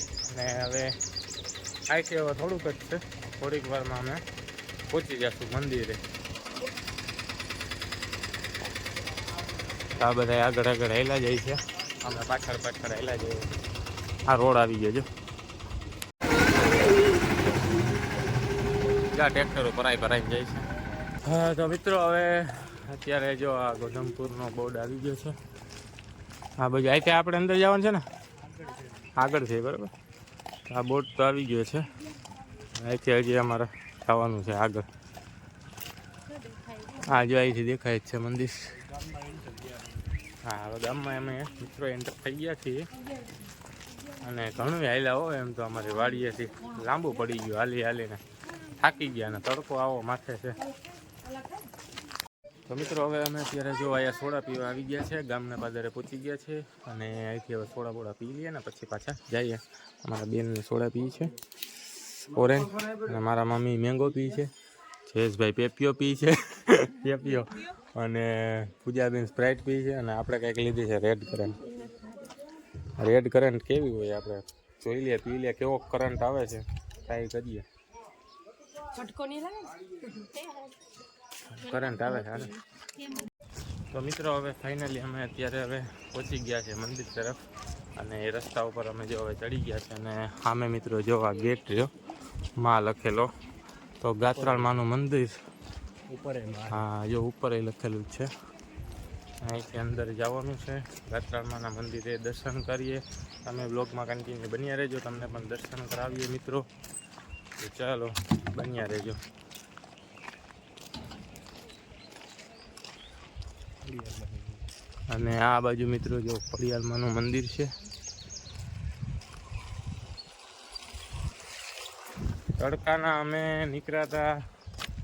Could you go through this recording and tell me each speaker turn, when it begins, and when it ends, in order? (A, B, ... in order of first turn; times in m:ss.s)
0:00.2-0:01.0 A
0:01.9-0:04.2 A
0:04.9-0:06.0 A
0:10.0-0:13.4 A
0:14.3-0:15.0 A
0:19.1-0:20.7 A
0:21.2-0:25.3 A
0:26.6-0:28.0 A
0:28.4-0:29.2 B
0:29.1-0:29.9 A
0:30.7-0:31.9 A
0:32.7-0:34.8 A
0:36.3-0:37.0 C
0:37.0-0:38.7 A
0:38.7-0:40.3 B
0:40.4-0:42.9 A
0:44.2-0:48.2 A
0:48.8-0:50.6 A
0:50.7-0:51.7 C
0:52.7-1:01.3 A
1:02.3-1:04.5 A
1:05.1-1:11.6 A
1:13.0-1:17.6 A
1:19.0-1:20.7 C
1:21.5-1:22.5 A
1:21.7-1:23.2 C
1:23.9-1:27.4 A
1:28.0-1:31.9 A
1:32.6-1:33.3 A
1:34.0-1:35.3 A
1:34.3-1:34.8 B
1:36.1-1:36.8 B
1:36.7-1:38.3 A
1:39.4-1:46.6 A
1:47.6-1:49.2 A
1:53.8-1:54.7 B
1:55.1-1:57.7 A
2:02.6-2:04.3 A